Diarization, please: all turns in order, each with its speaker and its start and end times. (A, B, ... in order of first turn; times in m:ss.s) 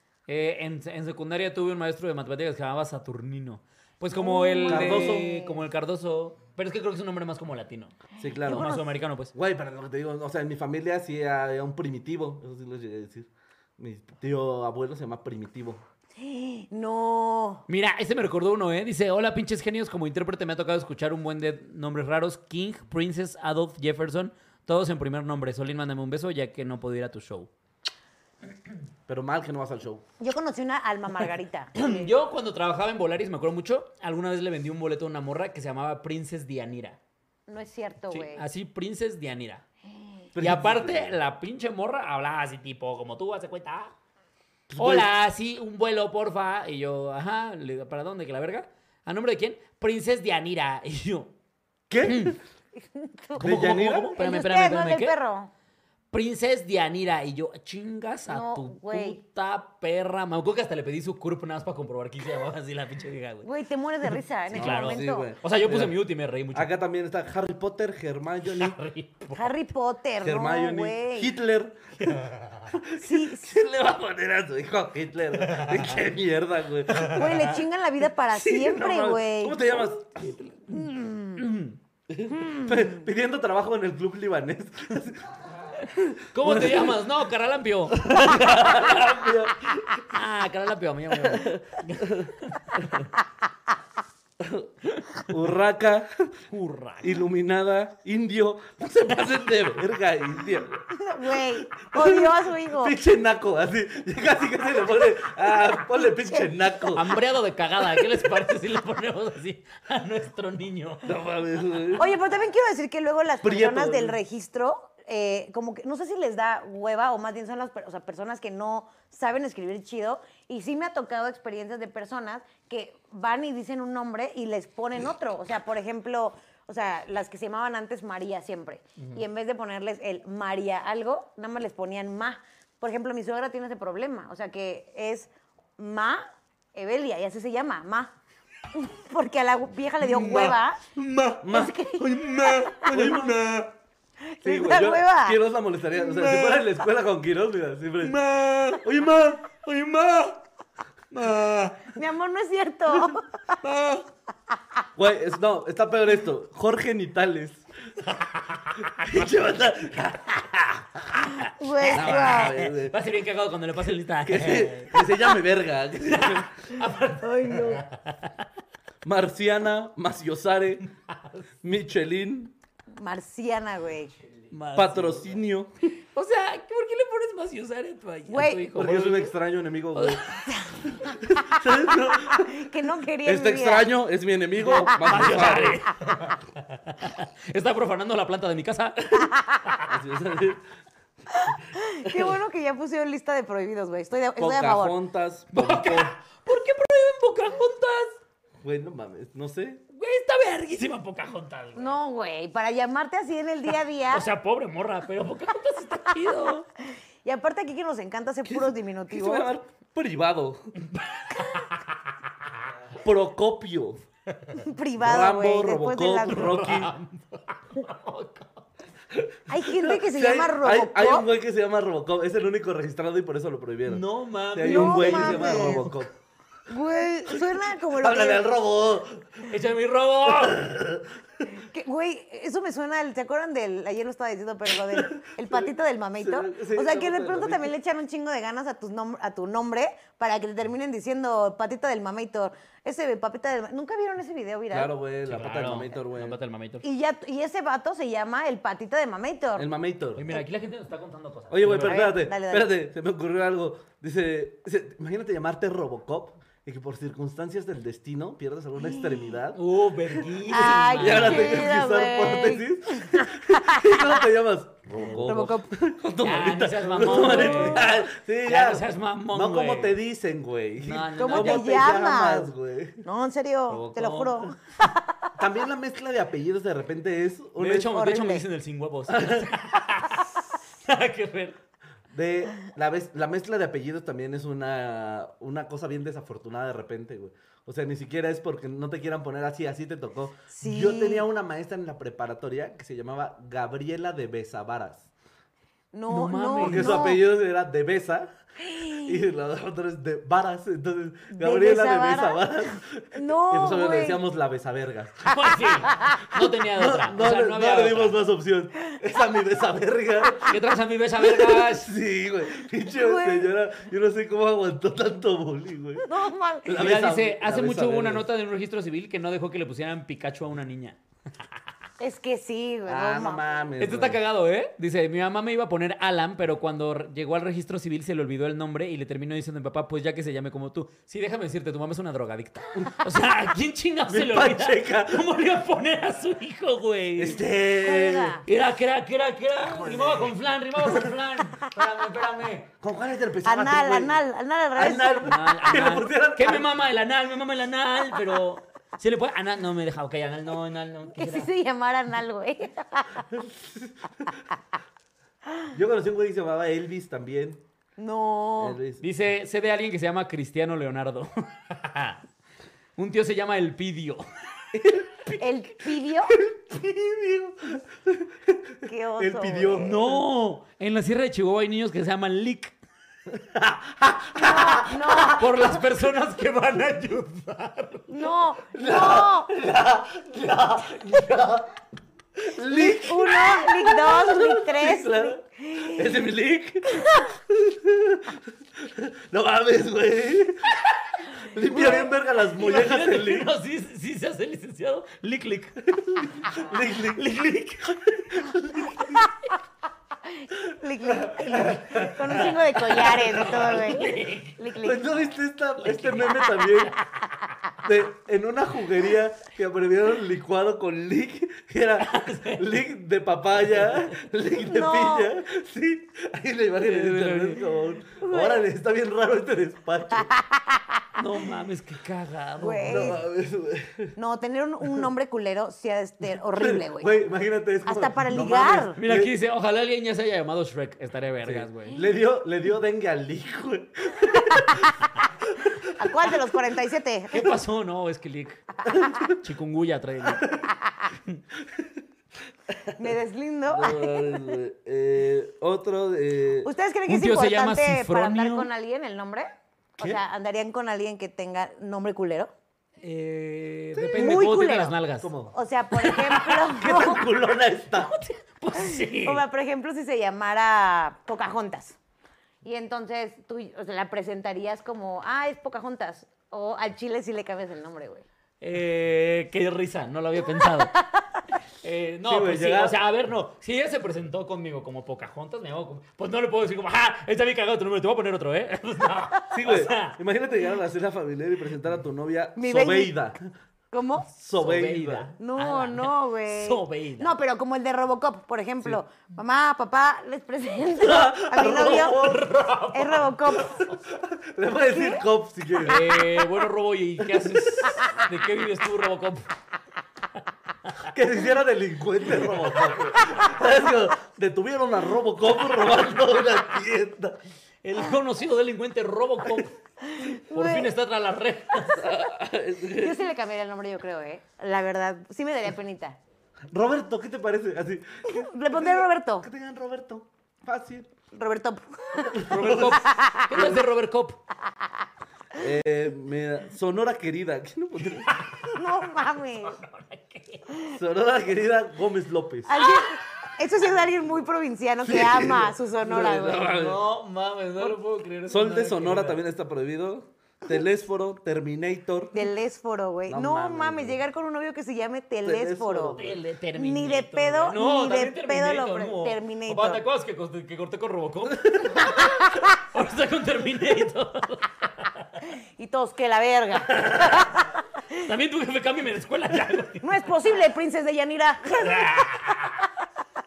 0:00.3-0:09.3 A
0:04.1-0:05.6 B
0:04.7-0:05.3 C
0:08.2-0:08.8 C
0:08.2-0:08.9 B
0:09.3-0:15.8 C
0:16.2-0:17.6 B
0:17.7-0:27.5 A
0:29.1-0:30.0 C
0:30.2-0:32.1 B
0:31.8-0:37.0 A
0:37.5-0:38.4 B
0:38.1-0:39.6 A
0:40.0-0:40.2 B
0:40.4-0:41.2 C
0:40.4-0:43.9 A
0:44.7-0:45.1 C
0:44.8-0:51.3 A
0:51.9-0:52.4 C
0:52.0-0:52.4 A
0:52.8-0:53.5 B
0:53.4-0:54.1 C
0:53.4-0:55.2 A
0:54.2-0:55.5 B
0:56.1-1:03.5 A
0:58.3-0:59.2 B
1:03.4-1:05.3 B
1:04.0-1:06.7 A
1:04.5-1:06.0 C
1:06.5-1:08.8 C
1:08.5-1:09.6 A
1:09.3-1:11.3 B
1:10.2-1:17.6 C
1:12.0-1:12.7 A
1:13.0-1:13.5 B
1:15.4-1:16.0 A
1:17.1-1:19.8 B
1:18.3-1:20.5 C
1:20.2-1:21.8 A
1:20.8-1:21.4 B
1:22.1-1:27.0 C
1:26.3-1:29.2 A
1:27.9-1:30.0 C
1:30.1-1:33.1 A
1:31.1-1:32.9 C
1:34.4-1:34.7 C
1:35.0-1:35.2 A
1:35.3-1:36.4 C
1:36.5-1:37.2 A
1:37.0-1:47.2 C
1:40.9-1:43.0 B
1:45.9-1:46.5 B
1:46.9-1:51.1 A
1:51.0-1:52.1 C
1:52.0-2:18.1 B
1:53.4-1:54.2 C
2:09.0-2:09.2 A
2:18.7-2:20.8 B
2:20.0-2:23.7 A
2:21.4-2:21.8 C
2:21.5-2:23.2 B
2:22.9-2:23.7 C
2:24.2-2:25.4 B
2:24.4-2:28.2 C
2:26.0-2:26.7 A
2:28.0-2:30.4 A
2:28.8-2:29.4 C
2:31.1-2:32.0 A
2:31.9-2:33.3 B
2:33.6-2:34.1 A
2:35.0-2:37.6 C
2:38.0-2:39.2 A
2:39.0-2:40.4 C
2:40.3-2:45.4 A
2:41.6-2:42.6 B
2:41.9-2:43.0 C
2:44.2-2:46.5 C
2:46.1-2:48.4 A
2:47.2-2:47.8 B
2:49.0-2:50.8 C
2:51.0-2:51.5 A
2:51.6-2:52.5 C
2:53.0-2:54.1 B
2:54.5-2:55.3 A
2:54.7-2:55.9 C
2:56.1-2:59.3 A
2:58.3-2:58.7 B
2:58.7-3:00.2 C
3:00.0-3:00.4 A
3:00.5-3:01.7 B
3:01.0-3:02.7 C
3:02.2-3:03.9 B
3:03.2-3:05.8 C
3:04.6-3:09.7 A
3:04.7-3:05.4 B
3:09.1-3:09.6 B
3:09.8-3:10.6 C
3:11.3-3:15.0 B
3:12.0-3:12.3 C
3:14.4-3:16.1 C
3:15.5-3:18.2 A
3:18.6-3:19.8 C
3:19.9-3:21.9 A
3:21.8-3:24.2 B
3:24.1-3:26.7 A
3:27.2-3:29.5 B
3:28.5-3:30.7 C
3:30.8-3:32.0 A
3:33.0-3:34.0 C
3:34.6-3:36.6 B
3:35.0-3:36.9 C
3:36.3-3:38.7 A
3:39.1-3:46.1 C
3:39.5-3:41.3 B
3:43.9-3:46.0 A
3:44.6-3:45.8 B
3:46.7-3:48.5 B
3:47.3-3:49.5 C
3:49.5-3:50.7 A
3:50.2-3:51.1 C
3:51.5-4:04.9 B
3:54.9-3:57.7 C
4:04.7-4:06.4 C
4:05.3-4:06.8 A
4:06.8-4:09.7 B
4:09.6-4:10.4 C
4:10.2-4:12.1 A
4:11.5-4:20.3 C
4:11.7-4:12.7 B
4:18.9-4:19.4 B
4:19.5-4:21.7 A
4:20.5-4:24.2 B
4:20.9-4:33.0 C
4:25.0-4:25.7 B
4:25.1-4:25.3 A
4:26.2-4:30.0 A
4:27.1-4:27.9 B
4:30.8-4:31.7 A
4:31.2-4:32.5 B
4:33.0-4:35.3 B
4:33.7-4:34.5 A
4:35.4-4:38.0 C
4:37.6-4:41.6 A
4:37.9-4:38.4 B
4:39.1-4:39.5 C
4:42.1-4:55.1 C
4:50.5-4:51.3 B
4:55.9-4:57.2 B
4:56.1-4:57.0 A
4:56.6-4:58.3 C
4:58.6-4:59.3 B
4:59.0-5:05.4 C
5:01.3-5:04.2 B
5:05.3-5:08.2 A
5:06.4-5:10.6 C
5:10.4-5:11.9 A
5:11.2-5:16.1 C
5:12.9-5:13.5 B
5:16.0-5:16.9 B
5:16.6-5:18.3 C
5:16.7-5:21.0 A
5:22.0-5:23.4 B
5:22.9-5:24.2 C
5:23.8-5:37.4 A
5:34.1-5:35.4 C
5:37.2-5:38.4 C
5:37.8-5:38.4 B
5:38.5-5:42.7 A
5:39.6-5:41.1 C
5:42.8-5:44.2 C
5:43.4-5:45.3 B
5:44.8-5:46.7 C
5:45.2-5:51.5 A
5:51.2-5:53.3 B
5:53.3-5:54.3 C
5:55.7-5:57.6 C
5:58.0-5:58.8 B
5:58.6-5:59.0 C
5:59.0-6:02.2 A
6:03.0-6:04.2 A
6:04.7-6:05.3 C
6:05.4-6:06.4 B
6:06.3-6:10.2 C
6:08.8-6:09.9 B
6:09.8-6:12.8 A
6:13.3-6:15.7 C
6:14.4-6:15.5 B
6:15.4-6:18.3 A
6:18.1-6:19.5 B
6:18.7-6:21.7 C
6:22.4-6:33.5 C
6:22.7-6:26.2 B
6:27.0-6:27.3 B
6:31.7-6:32.1 B
6:32.5-6:35.9 A
6:35.8-6:37.3 C
6:36.5-6:39.3 A
6:37.9-6:39.2 C
6:40.3-6:45.3 B
6:41.1-6:43.7 C
6:42.0-6:44.6 A
6:44.8-6:47.0 C
6:45.8-6:46.7 A
6:47.8-7:00.3 C
6:52.0-6:52.6 A
6:53.7-6:54.2 A
6:54.6-6:55.3 B
6:56.8-6:57.7 A
6:58.2-6:58.7 B
7:00.1-7:01.3 B
7:01.2-7:03.0 A
7:02.6-7:03.2 B
7:02.8-7:04.2 C
7:04.2-7:07.1 B
7:06.5-7:09.3 C
7:07.8-7:09.0 B
7:09.0-7:12.0 A
7:11.4-7:15.0 C
7:14.3-7:14.9 B
7:15.5-7:16.0 C
7:15.9-7:17.4 B
7:17.3-7:18.6 A
7:18.9-7:19.3 B
7:18.9-7:19.4 C
7:19.3-7:21.4 A
7:20.2-7:20.7 C
7:21.6-7:21.9 C
7:22.7-7:23.0 C
7:23.0-7:24.5 B
7:23.7-7:26.7 C
7:26.6-7:32.5 B
7:27.1-7:28.7 A
7:33.0-7:35.3 A
7:33.9-7:34.5 C
7:34.2-7:35.0 B
7:35.2-7:35.5 C
7:35.5-7:37.2 B
7:36.0-7:36.7 A
7:36.8-7:38.2 C
7:37.9-7:39.4 A
7:38.8-7:42.0 B
7:42.6-7:48.2 B
7:48.6-7:50.9 A
7:50.6-7:51.4 B
7:51.8-8:00.2 A
7:52.3-7:53.0 C
7:59.5-8:03.4 C
8:02.6-8:03.2 B
8:03.9-8:04.3 B
8:04.3-8:05.3 C
8:04.6-8:07.3 A
8:05.4-8:12.3 B
8:11.0-8:12.5 C
8:11.6-8:14.0 A
8:12.9-8:13.9 B
8:14.1-8:16.2 C
8:14.9-8:15.3 B
8:15.8-8:19.5 A
8:17.3-8:18.0 C
8:21.1-8:27.4 C
8:22.4-8:22.9 A
8:27.8-8:29.8 A
8:30.0-8:30.9 B
8:30.3-8:32.2 A
8:31.8-8:33.2 C
8:32.9-8:36.2 B
8:36.7-8:41.1 C
8:38.3-8:39.5 B
8:41.3-8:43.8 B
8:42.3-8:43.9 C
8:42.5-8:44.4 A
8:44.8-8:45.0 B
8:45.6-8:48.3 C
8:48.3-8:48.6 A
8:48.6-8:49.8 B
8:49.6-8:50.7 A
8:50.9-8:52.7 C
8:52.7-8:56.7 B
8:55.0-8:57.0 C
8:56.6-8:59.4 A
8:57.8-9:02.5 C
9:02.3-9:06.2 B
9:03.3-9:04.2 C
9:05.4-9:06.4 C
9:06.2-9:15.4 A
9:06.8-9:10.0 B
9:11.6-9:12.0 C
9:12.0-9:12.7 B
9:15.5-9:18.3 B
9:16.8-9:17.6 A
9:18.2-9:20.3 A
9:20.0-9:22.1 B
9:21.8-9:22.8 A